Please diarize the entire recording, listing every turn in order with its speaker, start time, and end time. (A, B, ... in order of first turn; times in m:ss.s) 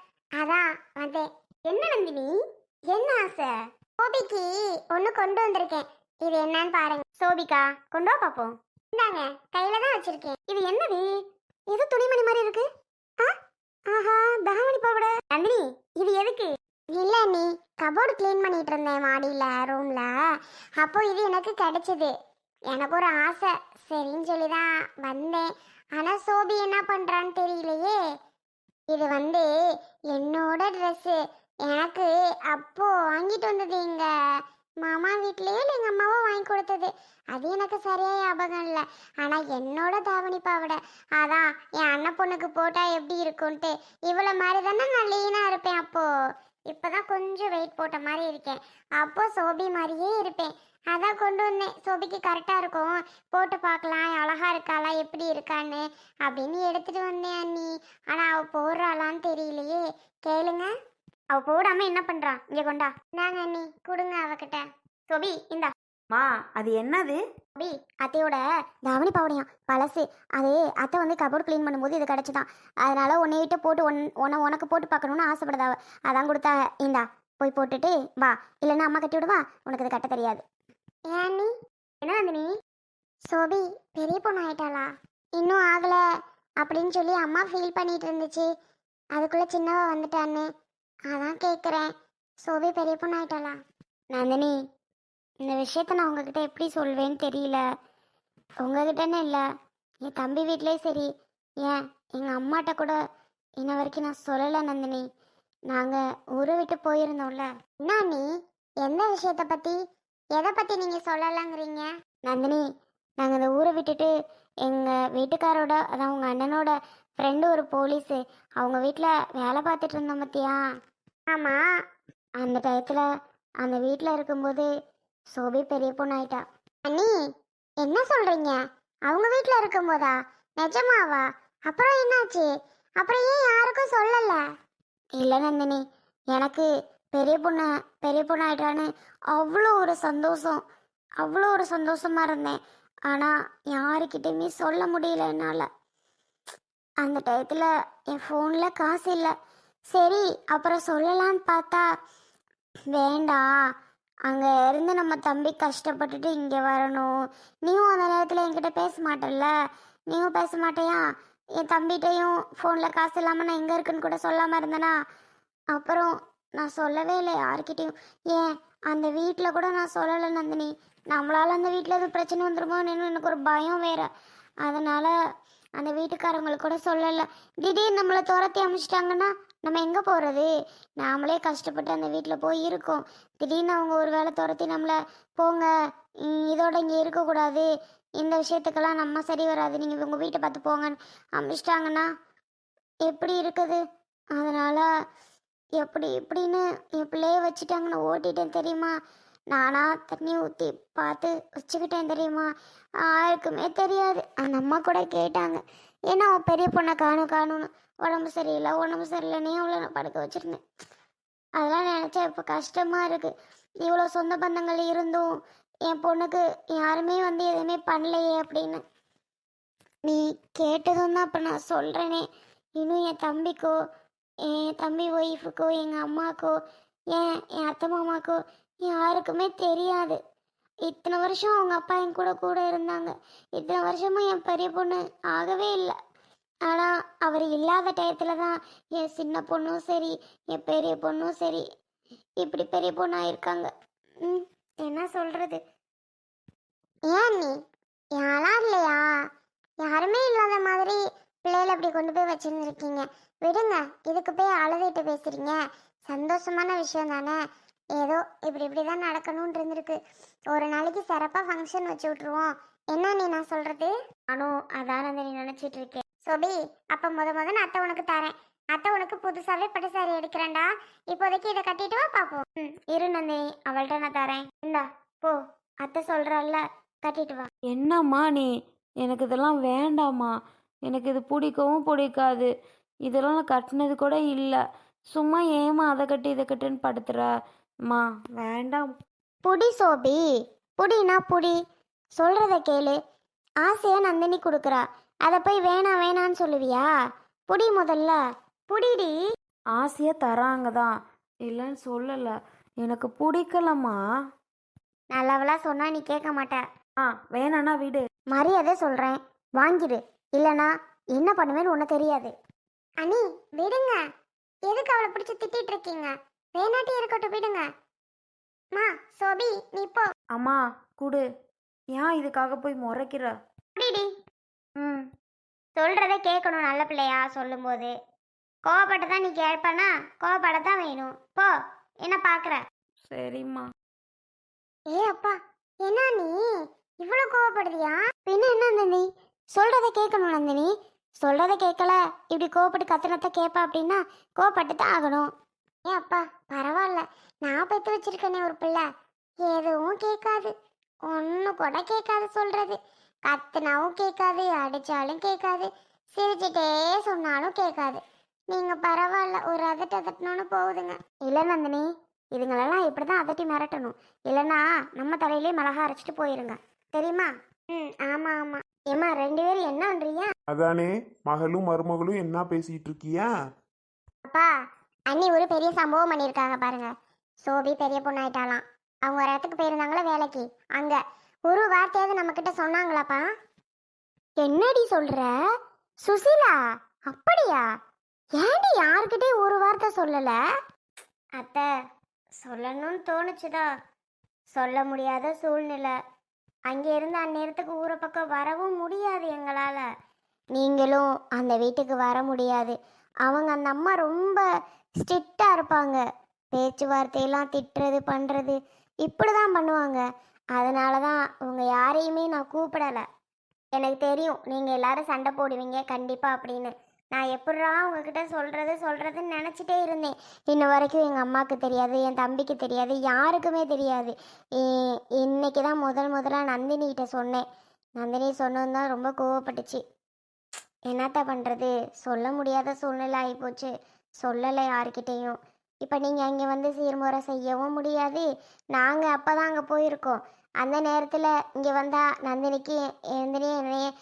0:00.4-0:02.4 A
0:02.9-0:11.2 A
0:11.7-0:12.7 A
0:13.9-0:20.1 A
0:20.8-0:22.2 A
0:22.7-0:28.0 A
0:28.9-0:29.5 A
0:30.1-0:34.1 A
0:34.8-0:46.1 A
0:46.7-1:00.7 A
1:01.3-1:05.7 A
1:06.1-1:07.2 B
1:07.6-1:20.4 A
1:21.1-1:21.5 A
1:22.0-1:22.5 A
1:23.3-1:26.0 A
1:26.6-1:28.5 A
1:29.2-1:30.5 A
1:31.1-1:31.9 A
1:32.4-1:33.6 A
1:34.1-1:34.6 A
1:35.4-1:37.6 A
1:38.6-1:39.4 A
1:40.0-1:41.1 A
1:41.6-1:43.0 A
1:43.6-1:45.0 A
1:45.7-1:48.2 A
1:48.8-1:49.8 A
1:50.4-1:52.6 A
1:53.2-1:54.1 A
1:54.6-2:00.6 A
2:01.3-2:01.6 A
2:02.4-2:03.0 A
2:03.6-2:04.7 A
2:05.3-2:07.2 A
2:07.8-2:14.4 A
2:15.2-2:20.6 A
2:21.2-2:25.7 A
2:27.0-2:29.3 A
2:29.9-2:31.9 A
2:32.9-2:33.5 A
2:34.3-2:39.5 A
2:40.1-2:45.0 A
2:45.7-2:54.1 A
2:54.6-2:55.1 A
2:55.8-3:05.7 A
3:06.2-3:07.7 A
3:08.2-3:12.1 A
3:13.0-3:13.8 A
3:14.4-3:14.9 A
3:15.8-3:18.9 A
3:19.5-3:22.5 A
3:23.0-3:30.6 A
3:31.6-3:33.3 A
3:33.8-3:35.3 A
3:35.9-3:38.8 A
3:40.0-3:42.3 A
3:42.8-3:43.8 A
3:44.4-3:46.6 A
3:47.1-3:50.2 A
3:50.9-3:56.0 A
3:56.7-4:01.6 A
4:02.4-4:03.7 A
4:04.2-4:05.6 A
4:07.1-4:07.6 A
4:08.2-4:09.1 A
4:09.8-4:17.4 A
4:18.0-4:20.0 A
4:20.5-4:37.5 A
4:37.7-4:38.5 B
4:39.0-4:40.3 B
4:40.9-4:42.5 B
4:43.1-4:44.6 B
4:45.1-4:47.3 B
4:47.9-4:48.9 B
4:49.4-4:50.2 A
4:50.8-4:51.6 A
4:52.2-4:53.0 A
4:53.6-4:56.9 A
4:57.5-4:58.2 A
4:58.7-4:59.2 A
4:59.7-5:00.9 B
5:01.4-5:04.0 B
5:05.1-5:06.6 A
5:07.0-5:08.0 B
5:08.3-5:12.3 A
5:13.0-5:14.0 A
5:14.7-5:17.6 A
5:18.7-5:20.1 A
5:20.3-5:21.3 B
5:21.9-5:23.4 B
5:23.8-5:24.1 A
5:24.8-5:25.1 B
5:25.8-5:27.9 A
5:28.6-5:31.5 A
5:32.0-5:32.6 A
5:33.1-5:33.7 B
5:34.9-5:36.4 A
5:37.0-5:45.3 A
5:45.9-5:48.8 A
5:49.4-5:50.5 A
5:51.0-6:10.3 A
6:10.5-6:13.3 C
6:14.3-6:14.5 A
6:15.1-6:16.9 A
6:17.4-6:23.3 A
6:24.4-6:25.3 A
6:26.0-6:27.6 A
6:28.4-6:30.4 A
6:31.4-6:31.7 A
6:32.4-6:33.7 A
6:34.5-6:36.0 A
6:36.7-6:39.9 A
6:40.6-6:44.4 A
6:45.0-6:46.0 A
6:46.5-6:50.0 A
6:50.6-6:53.0 A
6:53.8-7:07.4 A
7:08.0-7:09.8 A
7:10.9-7:23.9 A